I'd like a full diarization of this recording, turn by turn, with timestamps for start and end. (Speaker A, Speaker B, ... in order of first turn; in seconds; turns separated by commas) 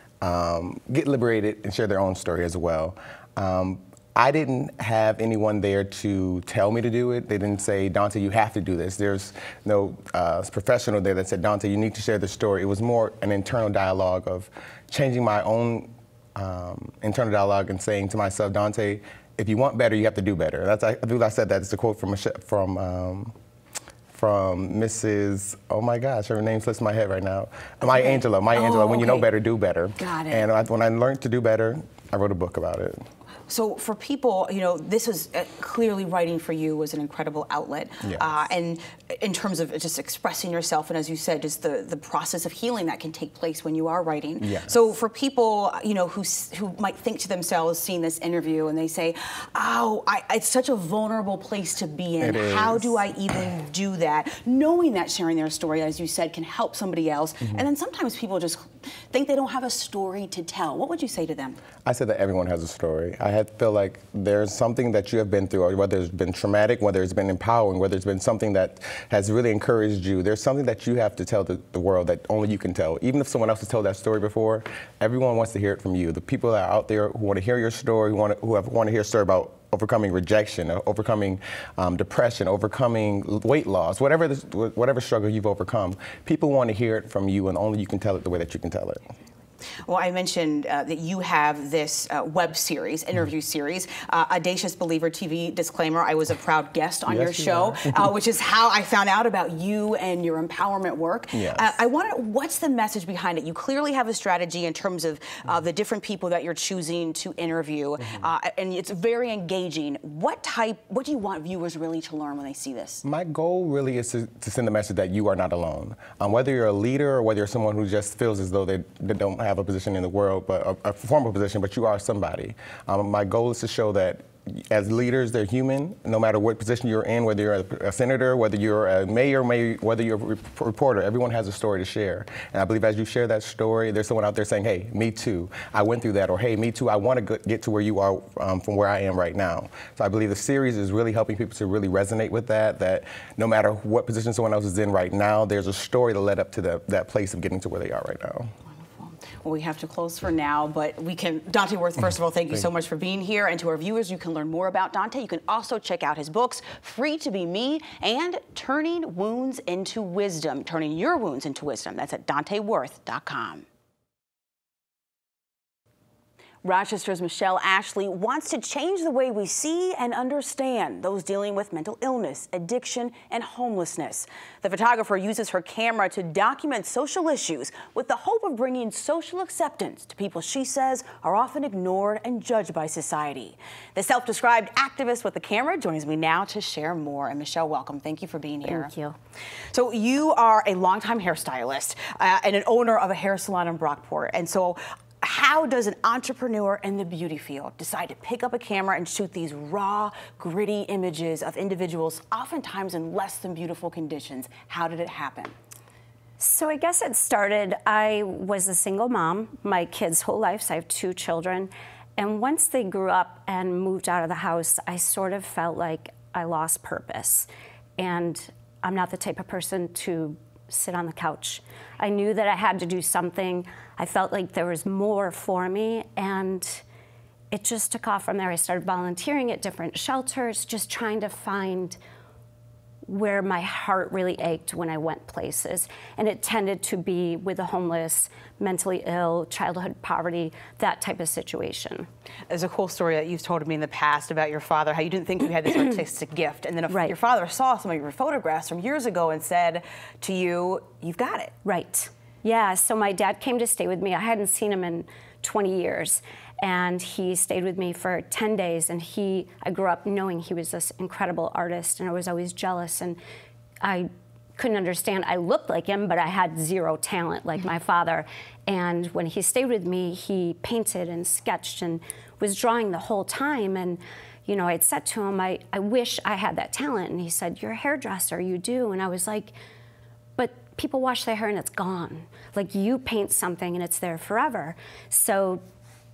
Speaker A: 0.2-23.3, Speaker A: 24.1-33.1, Speaker B: 27.8-29.3, Speaker B: 30.0-30.5, Speaker B: 33.5-61.6, Speaker A: 44.4-44.7, Speaker A: 52.2-53.1, Speaker A: 61.8-89.0, Speaker B: 89.9-113.0, Speaker A: 97.1-98.1, Speaker A: 101.3-101.8, Speaker A: 113.0-148.5, Speaker B: 148.9-163.7, Speaker B: 166.6-188.9, Speaker C: 188.7-189.2, Speaker B: 189.7-205.5, Speaker C: 206.4-226.8, Speaker C: 227.5-232.0, Speaker C: 233.1-242.1, Speaker B: 242.5-251.5, Speaker C: 246.9-247.1, Speaker C: 251.6-263.2, Speaker C: 263.8-279.5, Speaker C: 280.4-285.6